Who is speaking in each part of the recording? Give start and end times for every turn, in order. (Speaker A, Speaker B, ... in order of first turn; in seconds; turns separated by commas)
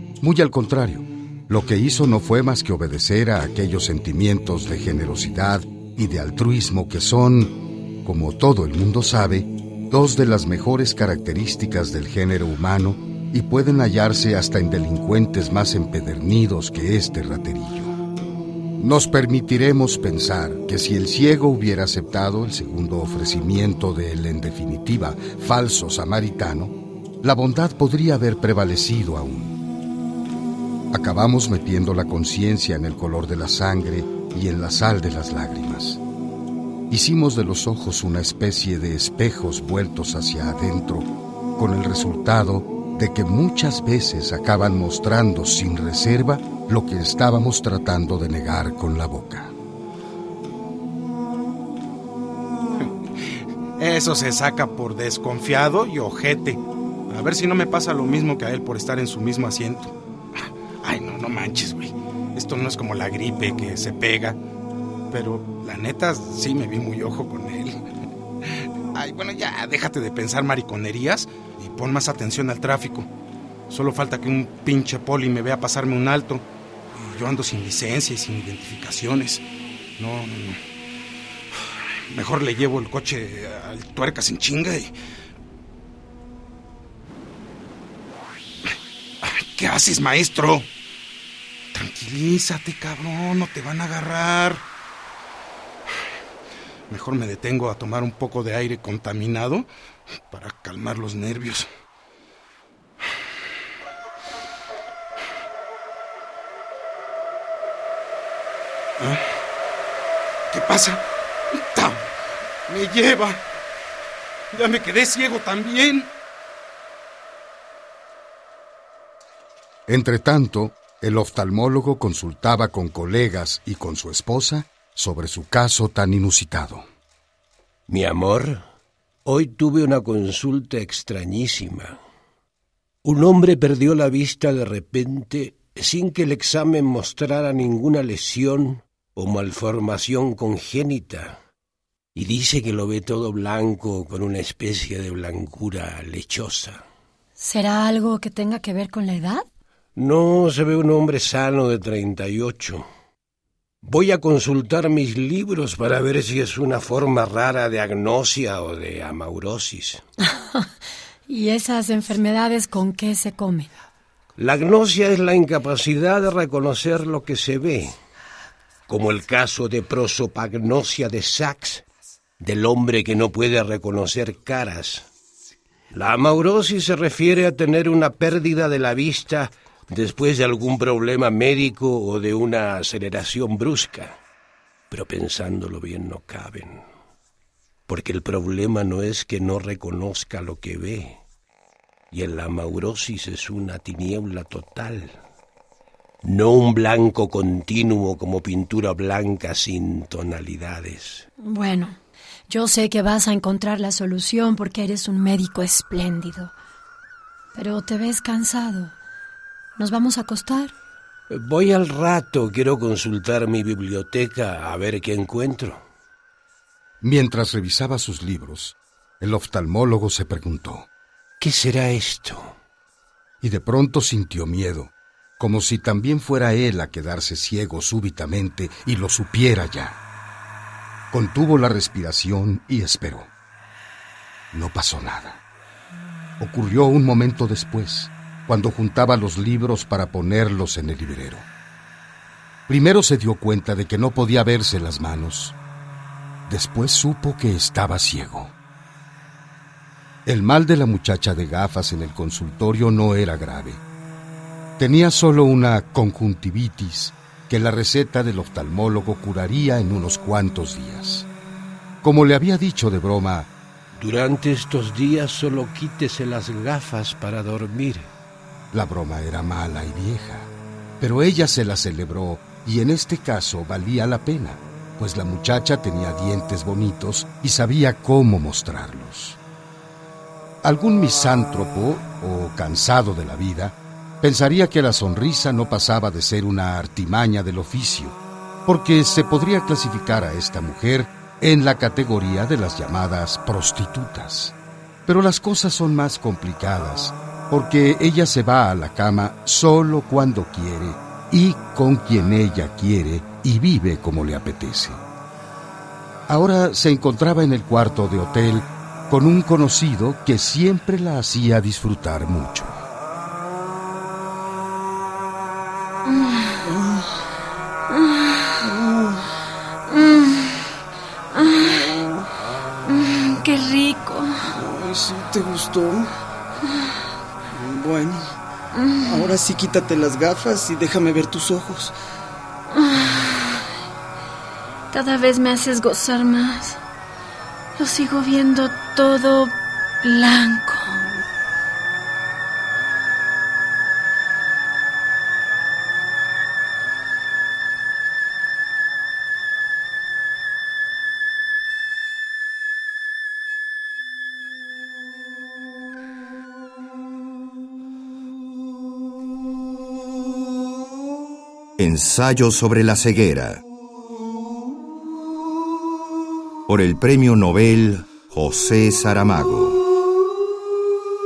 Speaker A: 0.2-17.9, Speaker A: 18.8-29.6, Speaker A: 30.9-36.0, Speaker A: 36.9-49.5, Speaker B: 53.8-64.4, Speaker B: 65.1-67.8, Speaker B: 69.0-73.1, Speaker B: 73.7-79.4, Speaker B: 80.0-80.6, Speaker B: 82.1-84.9, Speaker B: 89.2-90.7, Speaker B: 91.7-94.6, Speaker B: 96.9-99.7, Speaker B: 100.3-101.7, Speaker B: 109.0-109.2, Speaker B: 110.5-112.1, Speaker B: 112.7-113.4, Speaker B: 114.5-116.1, Speaker A: 119.9-126.9, Speaker C: 127.9-128.6, Speaker C: 129.2-132.0, Speaker C: 133.0-141.4, Speaker C: 142.2-146.8, Speaker D: 147.4-149.5, Speaker C: 150.0-152.9, Speaker C: 153.8-160.0, Speaker D: 160.2-160.7, Speaker D: 161.3-163.7, Speaker C: 164.4-168.0, Speaker C: 168.9-171.8, Speaker C: 172.4-175.1, Speaker C: 175.9-184.2, Speaker C: 184.9-186.8, Speaker C: 187.9-191.2, Speaker C: 192.1-195.2, Speaker C: 196.2-201.3, Speaker D: 201.4-202.0, Speaker D: 202.5-206.5, Speaker D: 207.6-208.9, Speaker D: 209.8-210.7, Speaker C: 211.3-215.8, Speaker A: 217.0-220.9, Speaker C: 221.4-222.5, Speaker A: 223.4-230.0, Speaker A: 231.1-233.3, Speaker A: 234.5-235.4, Speaker A: 236.4-241.5, Speaker A: 242.7-245.6, Speaker A: 246.5-248.5, Speaker A: 250.3-253.8, Speaker A: 254.8-261.3, Speaker A: 262.0-263.5, Speaker C: 264.0-268.1, Speaker A: 268.7-279.4, Speaker A: 280.6-294.6, Speaker A: 295.1-305.0, Speaker A: 306.3-312.9, Speaker E: 316.6-317.1, Speaker E: 318.6-319.2, Speaker F: 319.9-320.4, Speaker F: 321.4-321.9, Speaker F: 322.9-324.4, Speaker E: 324.5-326.1, Speaker E: 327.6-328.3, Speaker F: 328.8-329.3, Speaker E: 329.0-331.9, Speaker F: 332.8-333.3, Speaker F: 334.9-336.8, Speaker F: 337.8-341.0, Speaker G: 361.8-363.6, Speaker G: 366.7-369.8